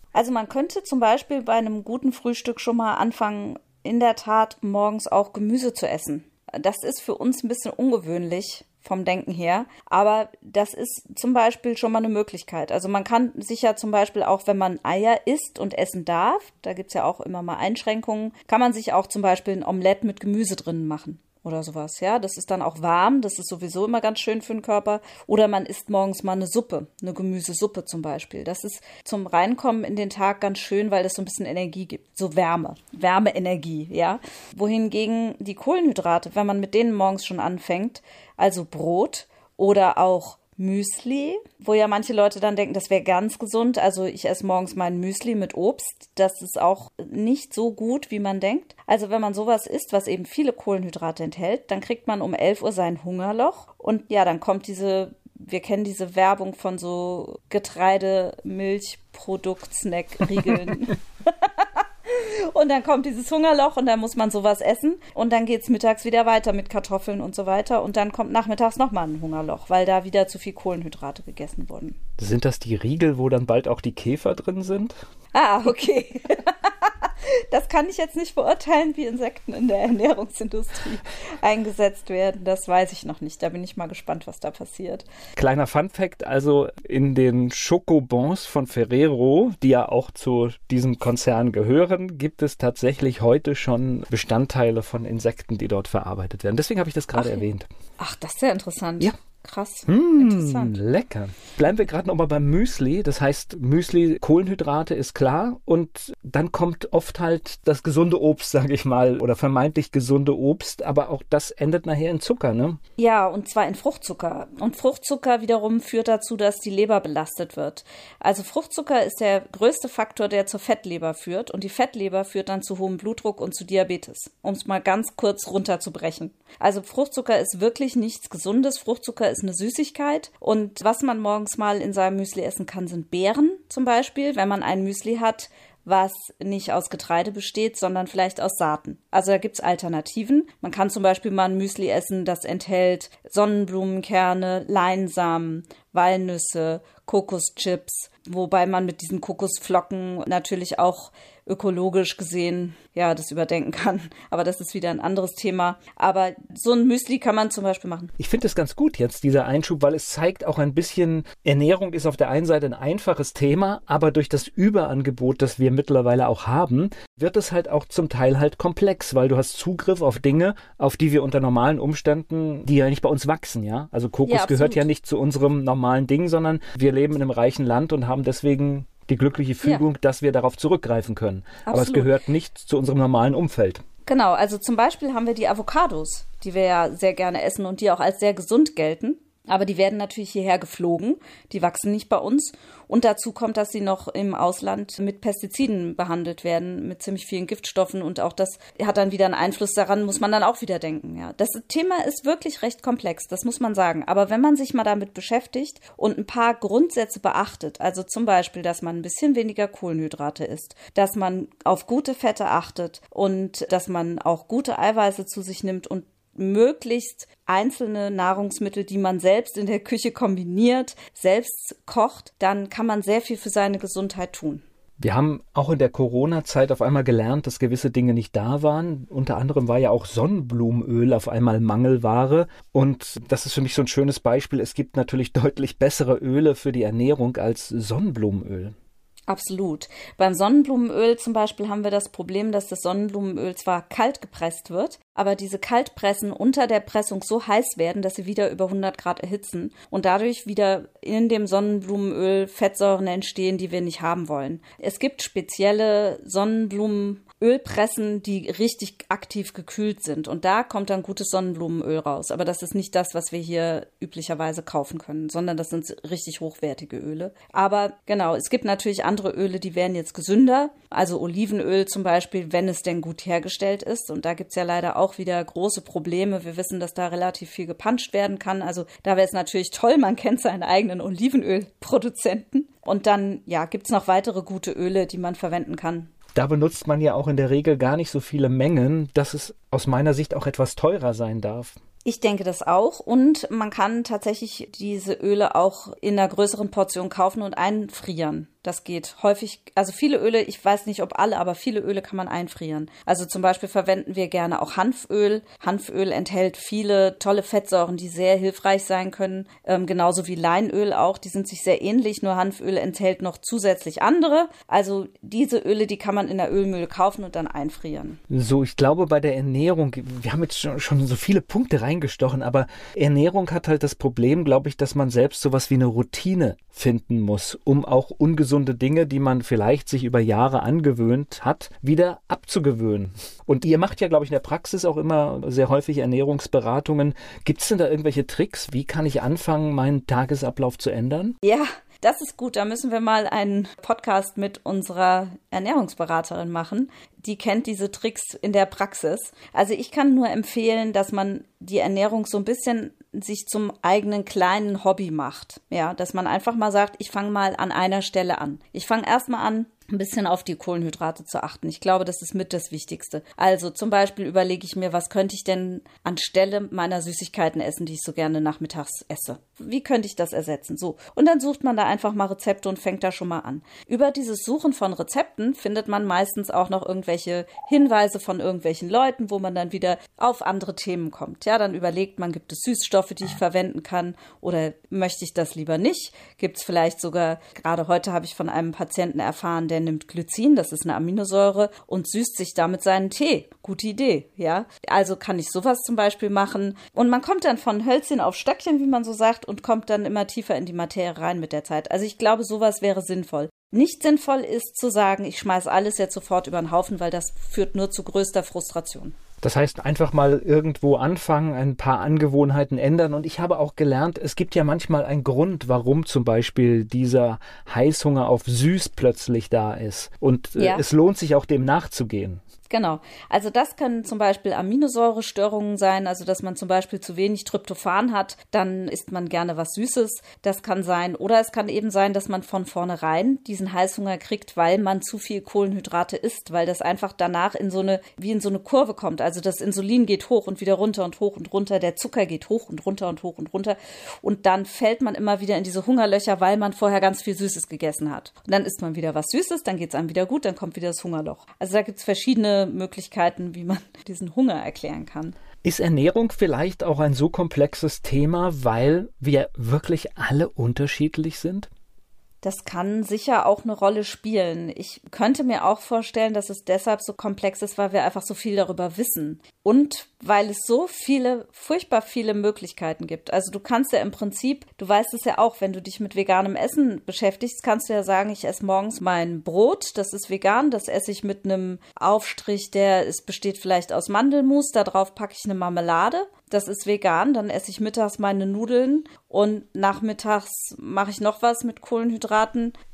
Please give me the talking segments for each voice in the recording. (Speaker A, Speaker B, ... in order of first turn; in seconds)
Speaker A: 0.1-72.0, 75.3-85.0, 97.1-97.4, 98.0-100.8, 113.0-158.1, 174.2-174.9, 181.6-182.1, 184.1-224.6, 239.3-286.1, 292.0-318.2, 341.4-409.2, 420.6-420.8, 422.7-455.4, 462.4-492.7
Speaker B: 72.2-75.0, 85.3-97.7, 99.9-112.8, 158.2-183.8, 225.0-238.7, 286.3-291.8, 318.3-341.4, 409.4-422.4, 455.6-461.7